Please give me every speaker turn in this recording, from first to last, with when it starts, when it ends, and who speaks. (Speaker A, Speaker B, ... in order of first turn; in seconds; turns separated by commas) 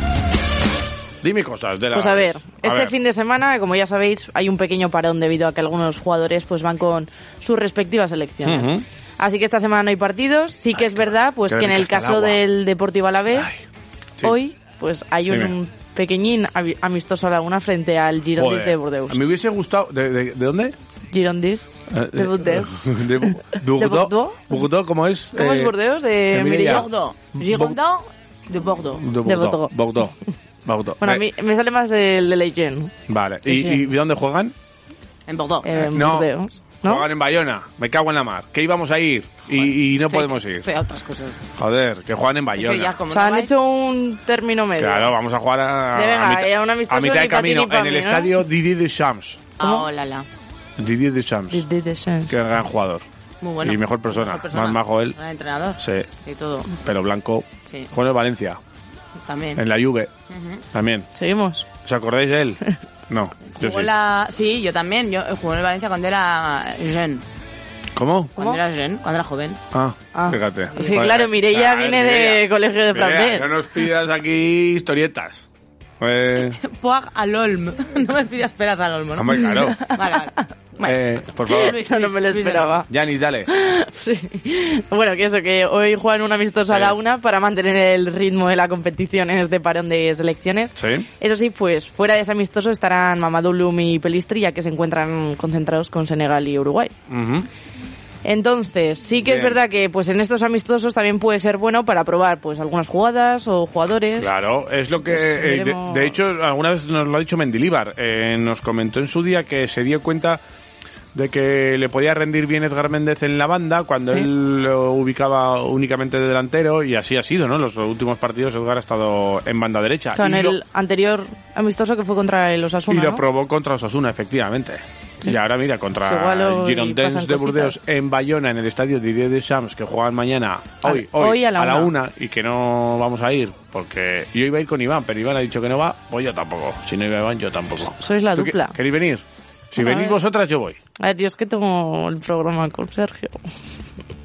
Speaker A: 1.2-2.9, Speaker B: 1.9-13.6, Speaker A: 8.4-8.8, Speaker A: 11.5-12.4, Speaker B: 14.2-19.2, Speaker A: 18.4-20.7, Speaker B: 21.1-24.6, Speaker A: 21.9-25.7, Speaker B: 25.3-26.9, Speaker A: 26.3-27.8, Speaker C: 26.7-29.0, Speaker A: 29.0-30.1, Speaker B: 29.2-29.7, Speaker A: 30.6-31.2, Speaker B: 31.0-32.9, Speaker A: 33.1-34.5, Speaker B: 33.5-33.8, Speaker C: 35.3-35.8, Speaker B: 35.6-37.0, Speaker A: 35.9-36.3, Speaker A: 36.8-40.6, Speaker C: 39.6-41.4, Speaker A: 41.6-43.0, Speaker C: 42.5-43.5, Speaker B: 43.1-45.1, Speaker A: 44.8-49.5, Speaker B: 45.9-48.3, Speaker C: 49.6-50.2, Speaker B: 49.6-49.9, Speaker A: 50.8-51.6, Speaker B: 51.5-52.3, Speaker A: 52.3-53.0, Speaker C: 53.4-56.7, Speaker A: 53.6-55.1, Speaker A: 55.8-56.1, Speaker A: 56.7-58.6, Speaker C: 59.2-59.6, Speaker A: 59.5-60.1, Speaker C: 60.3-60.6, Speaker A: 60.7-61.1, Speaker B: 61.1-61.6, Speaker A: 61.8-63.9, Speaker C: 63.5-67.2, Speaker A: 68.0-68.3, Speaker C: 68.4-69.6, Speaker A: 69.7-75.4, Speaker B: 70.1-73.5, Speaker A: 76.0-76.6, Speaker C: 76.3-81.0, Speaker A: 79.2-79.9, Speaker A: 80.8-81.8, Speaker B: 81.5-82.9, Speaker C: 81.6-82.8, Speaker A: 82.9-83.5, Speaker B: 83.5-96.9, Speaker A: 90.8-91.1, Speaker A: 97.1-97.5, Speaker B: 98.2-104.3, Speaker A: 99.2-99.5, Speaker A: 104.2-110.4, Speaker B: 105.1-106.1, Speaker A: 111.1-120.6, Speaker B: 120.2-123.2, Speaker A: 122.9-140.8, Speaker B: 126.0-127.8, Speaker B: 130.8-131.9, Speaker B: 138.0-138.7, Speaker B: 139.8-140.2, Speaker B: 141.0-143.4